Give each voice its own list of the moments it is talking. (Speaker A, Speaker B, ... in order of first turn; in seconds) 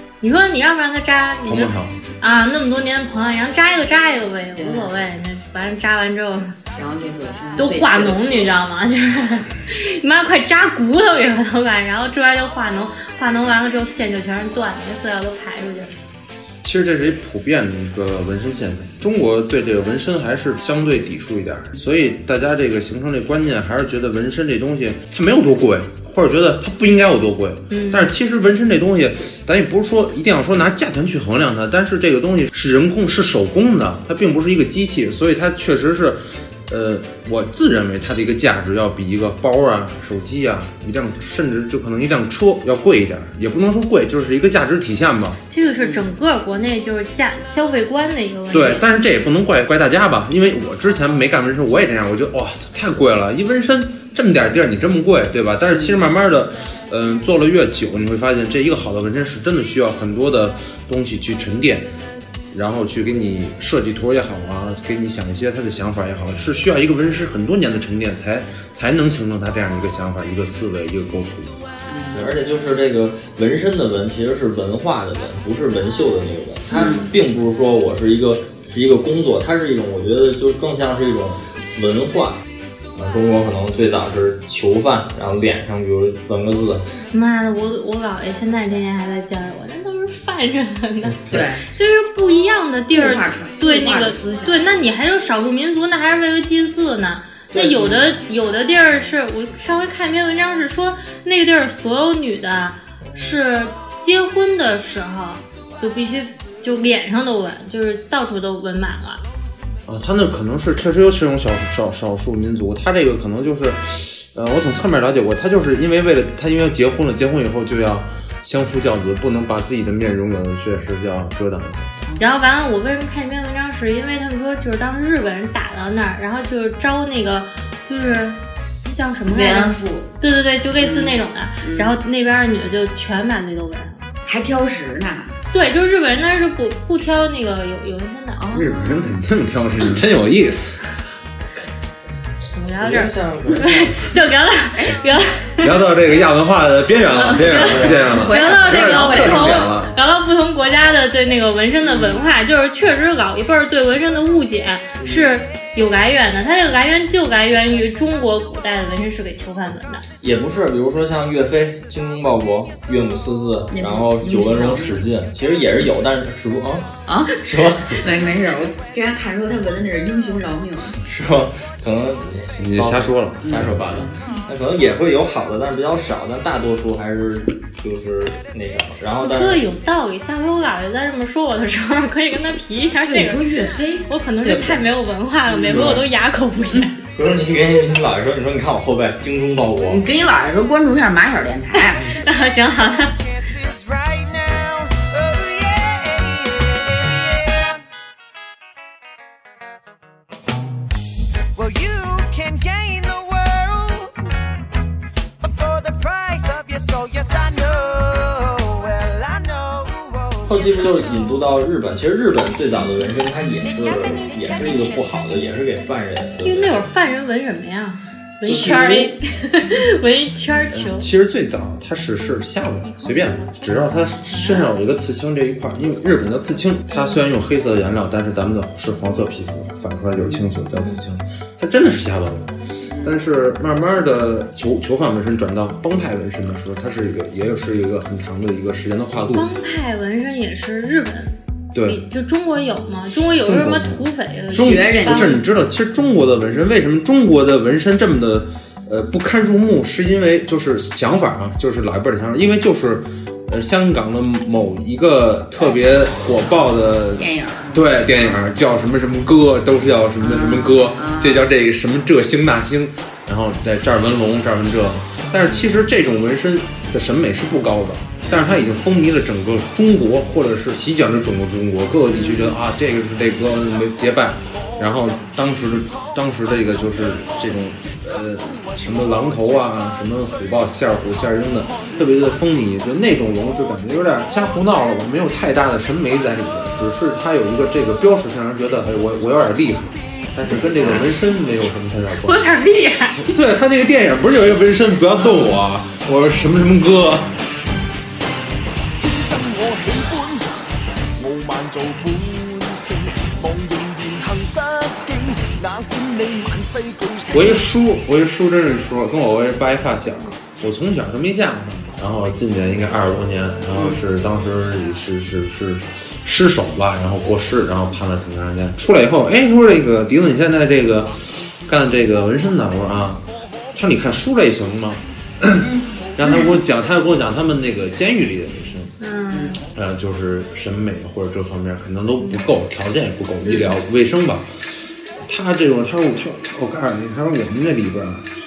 Speaker A: 0.2-6.5, 7.6-15.9, 27.7-28.1, 45.5-48.9, 87.1-109.2, 122.2-134.0, 135.5-138.4, 142.5-145.7, 147.2-160.0, 179.2-186.9, 191.8-193.2, 216.4-221.1, 239.3-245.4, 292.2-293.3, 329.0-329.6
Speaker B: 1.4-1.9, 16.6-45.4, 48.5-61.9, 62.5-71.5, 109.9-121.9, 138.5-140.8, 145.6-149.9, 172.6-173.8, 220.7-239.5, 241.7-242.0, 243.1-292.5, 293.2-297.3, 307.3-328.9, 329.7-334.5, 335.2-338.3
Speaker C: 4.5-4.9, 6.8-8.5, 45.8-46.1, 55.7-56.0, 71.9-72.3, 76.7-77.1, 91.3-91.6, 92.9-94.6, 97.5-98.0, 129.2-130.1, 130.8-132.0, 134.2-135.3, 138.4-139.2, 147.3-149.7, 151.8-152.2, 163.7-165.0, 167.1-171.0, 173.4-174.4, 183.1-184.9, 185.5-186.0, 189.9-192.2, 218.4-219.1, 244.5-245.4, 257.2-258.4, 260.2-261.5, 268.3-268.7, 272.1-272.6, 325.6-326.5, 329.3-329.6, 333.4-333.8
Speaker D: 72.1-82.4, 83.0-86.8, 142.8-144.1, 147.7-148.0, 155.0-155.3, 160.2-168.0, 171.0-179.6, 185.7-186.0, 187.1-190.0, 210.4-216.8, 218.5-218.9
Speaker E: 201.7-202.6, 299.0-300.6, 301.2-307.6